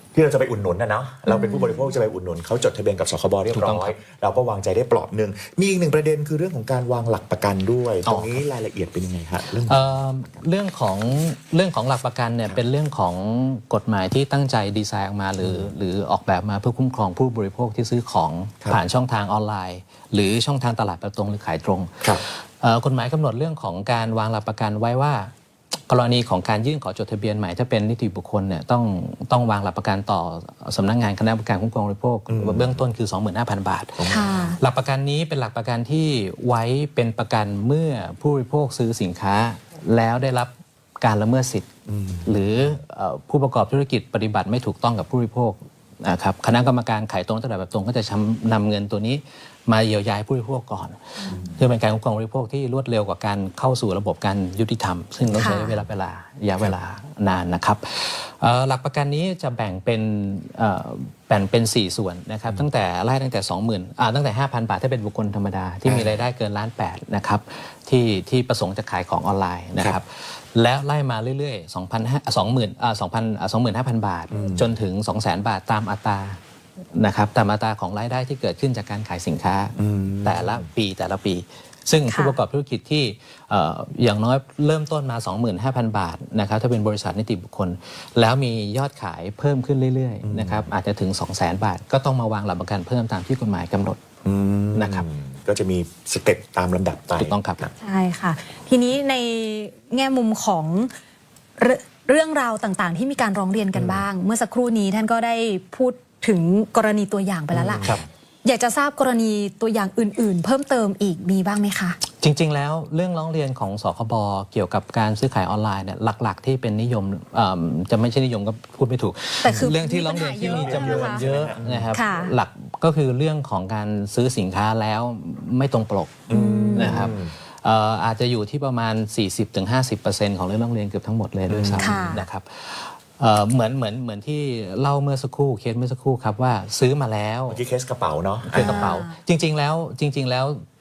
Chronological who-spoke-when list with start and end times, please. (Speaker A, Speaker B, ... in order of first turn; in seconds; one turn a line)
Speaker A: 0.1-10.0
Speaker B: 1.2-1.9
Speaker C: 3.5-3.9
Speaker C: 8.0-8.4
Speaker C: 9.5-25.3
Speaker A: 15.4-15.7
Speaker C: 25.9-41.7
Speaker A: 32.3-32.8
Speaker A: 34.0-34.5
Speaker B: 34.1-34.6
Speaker A: 41.9-42.8
Speaker C: 42.2-76.4
Speaker A: 51.3-51.6
Speaker A: 55.3-55.8
Speaker B: 55.4-55.8
Speaker A: 65.8-66.1
Speaker A: 74.3-74.7
Speaker C: 76.9-94.0
Speaker A: 79.8-80.7
Speaker B: 82.1-82.3
Speaker A: 90.2-90.7
Speaker A: 94.2-97.7
Speaker C: 94.7-95.0
Speaker C: 97.2-97.6
Speaker B: 97.8-100.9
Speaker B: 101.6-107.8
Speaker A: 103.7-104.0
Speaker A: 107.5-108.0
Speaker B: 108.4-112.0
Speaker C: 112.2-137.6
Speaker B: 119.4-121.2
Speaker A: 119.4-119.7
Speaker A: 120.4-121.9
Speaker B: 121.9-122.3
Speaker A: 126.3-127.3
Speaker B: 126.3-127.1
Speaker A: 131.5-132.2
Speaker B: 131.8-132.2
Speaker A: 137.5-139.0
Speaker C: 138.4-140.6
Speaker B: 138.6-139.1